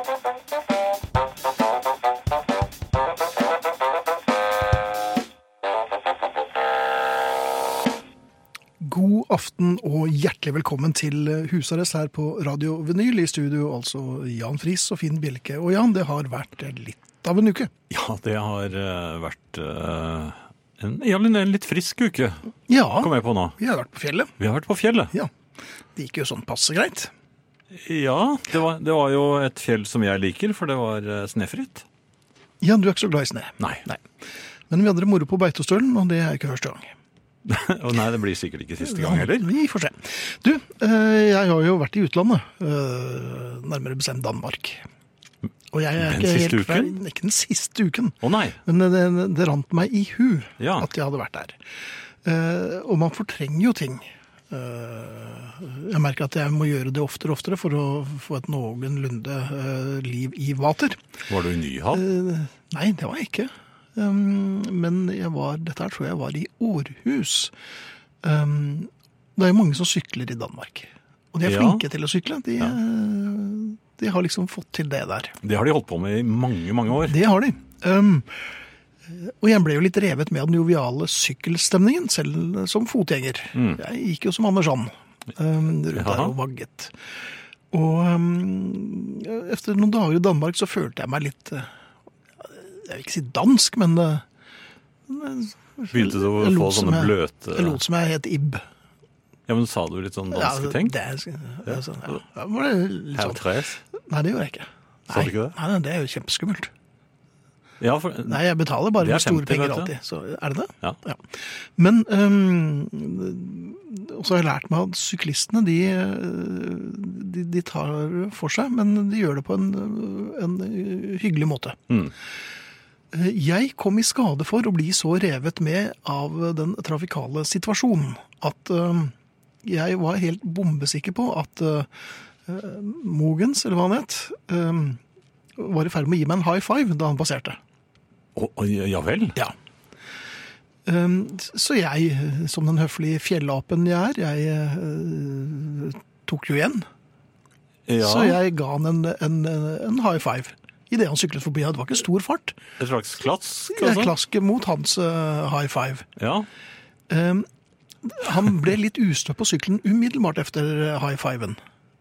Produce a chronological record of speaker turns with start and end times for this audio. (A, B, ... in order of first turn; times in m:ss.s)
0:08.8-0:17.7 A
0:17.9-0:22.5 B
0:22.7-0:24.3 A
0:23.0-0:23.6 B
0:24.4-0:25.1 B
0:26.0-0:27.1 A
0:27.8-0:31.8 B
0:32.6-0:34.0 A
0:34.7-0:36.9 A
0:37.5-0:39.5 B
0:38.8-0:44.8 A
0:45.7-0:51.6 A
0:46.0-0:47.0 B
0:48.2-0:48.6 B
0:50.6-0:50.9 B
0:52.2-1:01.0 A
1:01.3-1:02.0 B
1:01.9-1:07.5 A
1:08.2-1:15.3 A
1:11.4-1:11.8 B
1:15.4-1:17.2 B
1:17.1-1:18.3 A
1:19.1-1:26.9 A
1:23.6-1:23.8 B
1:25.9-1:26.4 B
1:27.7-1:31.7 A
1:32.4-1:34.2 A
1:35.1-1:38.6 A
1:35.9-1:37.8 B
1:39.5-1:41.0 B
1:40.3-1:43.4 A
1:43.2-1:43.8 B
1:44.0-1:46.7 A
1:45.1-1:45.6 B
1:47.8-1:48.4 B
1:48.3-2:01.8 A
1:49.0-1:49.9 B
2:03.1-2:09.1 A
2:09.6-2:11.9 A
2:12.5-2:15.0 A
2:15.6-2:17.6 A
2:18.4-2:19.4 B
2:20.9-2:26.9 A
2:27.9-2:28.4 B
2:28.0-2:32.6 A
2:32.8-2:34.1 B
2:33.7-2:36.0 A
2:36.2-2:36.5 B
2:37.1-2:37.5 A
2:38.0-2:41.6 A